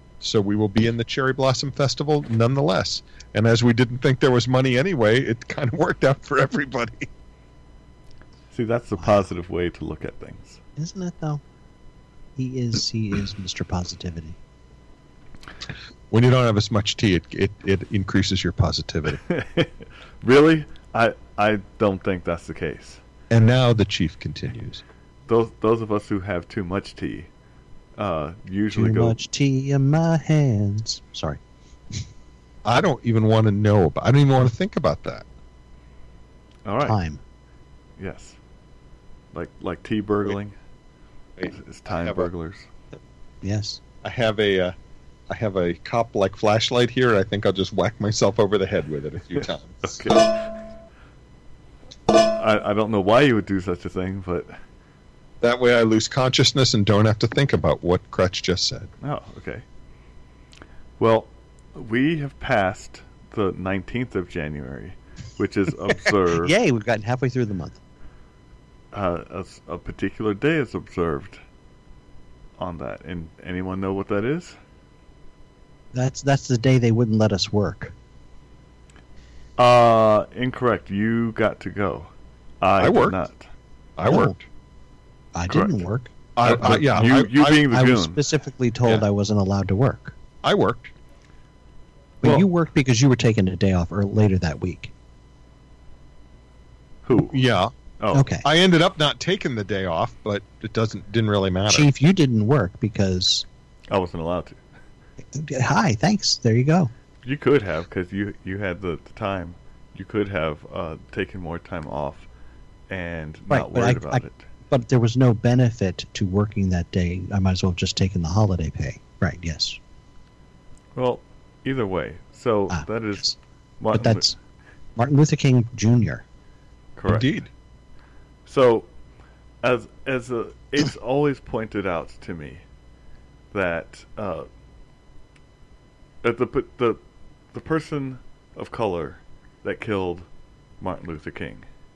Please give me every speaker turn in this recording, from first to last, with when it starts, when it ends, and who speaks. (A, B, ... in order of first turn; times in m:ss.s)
0:00.2-0:07.1 A
0:08.5-0:10.6 B
0:09.0-0:09.2 C
0:10.8-0:11.4 C
0:12.4-0:14.4 C
0:16.1-0:19.2 A
0:19.2-0:23.0 B
0:23.3-0:24.8 A
0:25.3-0:27.3 B
0:28.0-0:29.2 B
0:28.7-0:31.4 C
0:32.6-0:35.2 A
0:36.6-0:37.0 B
0:36.8-0:37.2 C
0:38.0-0:38.4 B
0:39.3-0:40.5 B
0:41.4-0:42.3 A
0:41.5-0:42.7 B
0:43.4-0:43.8 C
0:44.0-0:44.7 A
0:45.3-0:50.2 A
0:49.8-0:50.6 B
0:52.1-0:54.5 B
0:55.4-0:58.9 A
0:59.0-0:59.6 B
1:01.0-1:06.5 B
1:06.3-1:07.8 C
1:08.9-1:11.4 B
1:12.6-1:14.6 B
1:15.9-1:17.9 C
1:19.6-1:23.5 B
1:22.8-1:23.2 A
1:24.0-1:24.4 A
1:24.1-1:24.3 C
1:25.3-1:26.1 C
1:25.5-1:25.8 B
1:26.4-1:27.6 A
1:26.4-1:28.2 B
1:27.7-1:30.2 C
1:30.4-1:30.9 A
1:32.2-1:34.9 C
1:37.0-1:37.4 B
1:37.3-1:37.7 A
1:38.0-1:38.3 B
1:38.1-1:38.4 C
1:38.4-1:41.9 A
1:41.7-1:43.4 C
1:43.9-1:44.6 B
1:45.3-1:46.9 C
1:47.2-1:52.2 B
1:52.9-1:54.4 B
1:53.5-1:59.8 C
2:00.9-2:04.3 B
2:02.7-2:03.3 C
2:03.9-2:04.3 C
2:05.0-2:06.2 C
2:07.0-2:07.3 B
2:07.1-2:07.5 A
2:08.4-2:08.9 B
2:09.6-2:12.6 B
2:13.5-2:14.5 B
2:16.2-2:17.0 B
2:17.5-2:20.2 B
2:20.8-2:21.6 B